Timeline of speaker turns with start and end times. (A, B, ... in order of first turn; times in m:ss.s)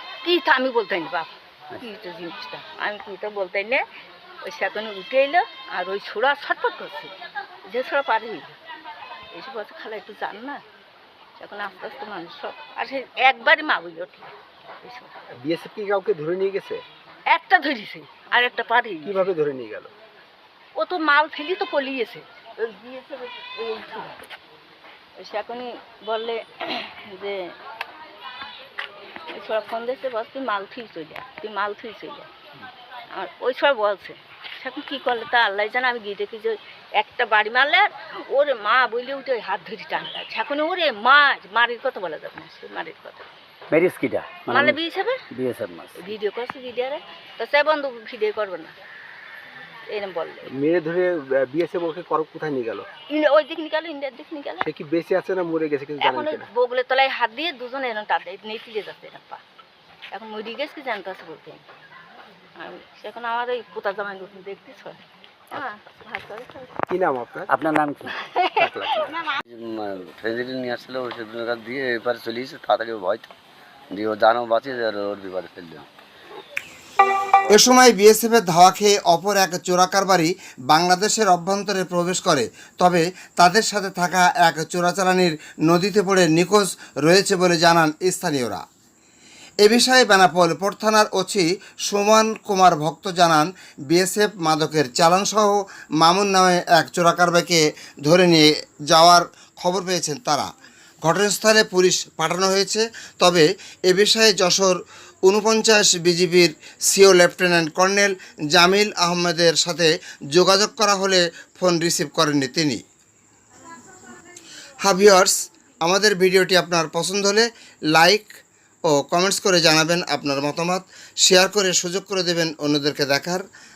0:00.2-0:03.8 A
0:04.4-0:07.1 A
0:07.7-0:08.6 A
0:09.3-0:10.6 A
0:11.4-0:15.1 A
0:15.4-0:16.8 B
0:17.3-0:19.3 A
0:19.0-0:19.9 B
0:20.8-0:24.2 A
0:25.2-0:27.5 A
0:29.3-0:32.3 A
0:33.1-0:43.3 A
0:43.7-0:44.4 C
0:44.4-0:45.2 A
0:45.3-0:46.0 C
0:46.0-0:48.8 A
0:49.9-0:50.5 A
0:50.5-0:52.9 B
0:53.1-0:54.7 A
0:54.6-0:56.5 B
0:56.0-0:59.4 A
1:00.1-1:01.6 A
1:02.6-1:05.0 A
1:05.5-1:06.7 A
1:06.9-1:07.5 B
1:07.5-1:08.1 C
1:08.0-1:09.1 A
1:08.6-1:09.2 B
1:09.5-1:13.4 D
1:13.9-1:15.9 D
1:17.5-1:28.6 E
1:29.6-1:40.5 E
1:41.0-1:52.8 E
1:54.8-2:03.4 E